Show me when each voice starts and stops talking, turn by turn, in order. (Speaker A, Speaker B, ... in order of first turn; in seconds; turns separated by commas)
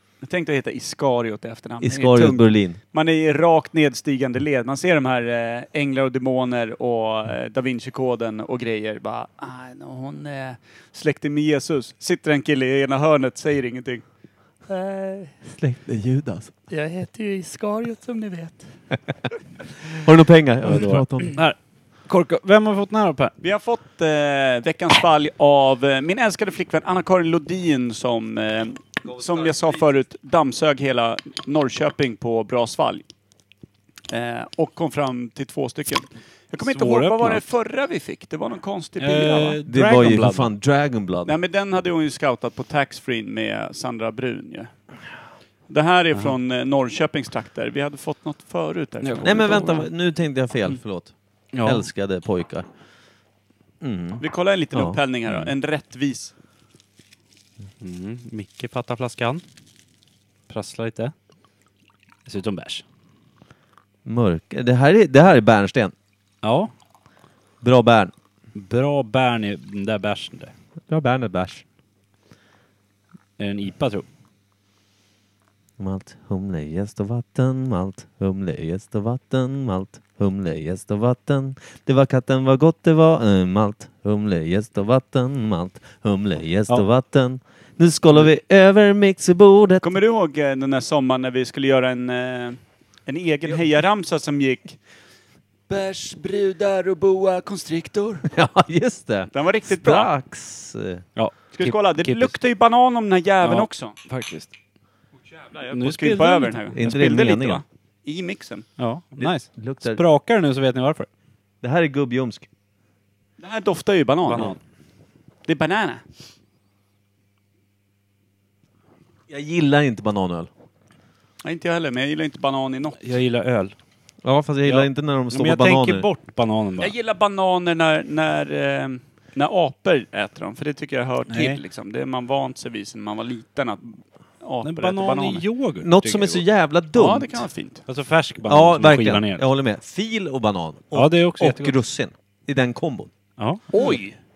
Speaker A: 0.2-14.0, Speaker B: 1.8-2.8, Speaker A: 14.7-15.3, Speaker B: 15.5-16.5, Speaker A: 16.7-18.7, Speaker B: 20.0-21.4, Speaker C: 20.6-21.6, Speaker C: 22.1-23.3, Speaker A: 23.4-33.0, Speaker A: 34.1-39.6, Speaker C: 36.6-37.4, Speaker C: 39.0-40.5, Speaker B: 39.7-41.3, Speaker A: 41.2-44.7, Speaker A: 45.7-49.6, Speaker C: 49.0-49.9, Speaker B: 49.2-51.1, Speaker C: 51.5-51.8, Speaker B: 51.6-52.7, Speaker B: 53.8-54.2, Speaker A: 54.2-56.3, Speaker C: 57.8-59.4, Speaker C: 60.5-61.1, Speaker C: 62.2-62.8, Speaker B: 64.0-65.9, Speaker C: 66.4-66.7, Speaker B: 67.6-68.1, Speaker C: 68.5-70.5, Speaker B: 70.9-71.6, Speaker C: 73.4-74.0, Speaker B: 75.8-89.8, Speaker A: 89.8-94.8, Speaker A: 95.7-98.3, Speaker B: 98.3-101.0, Speaker A: 99.3-100.1, Speaker C: 101.2-102.4, Speaker A: 101.5-103.9, Speaker C: 103.4-104.5, Speaker A: 105.4-108.7, Speaker C: 105.7-106.7, Speaker B: 106.7-107.6, Speaker C: 108.8-111.1, Speaker B: 109.2-110.0, Speaker B: 111.6-112.5, Speaker A: 113.4-114.5, Speaker C: 114.3-114.6, Speaker A: 115.5-116.0, Speaker B: 119.3-120.5, Speaker A: 121.4-123.0, Speaker C: 123.0-123.7, Speaker B: 124.2-126.1, Speaker C: 124.7-126.9, Speaker A: 126.8-135.4, Speaker C: 131.3-131.6, Speaker C: 134.6-136.4, Speaker B: 135.8-137.4, Speaker A: 136.9-137.8, Speaker C: 137.9-139.5, Speaker B: 138.4-143.1, Speaker C: 140.9-141.8, Speaker C: 143.4-144.0, Speaker A: 143.7-144.2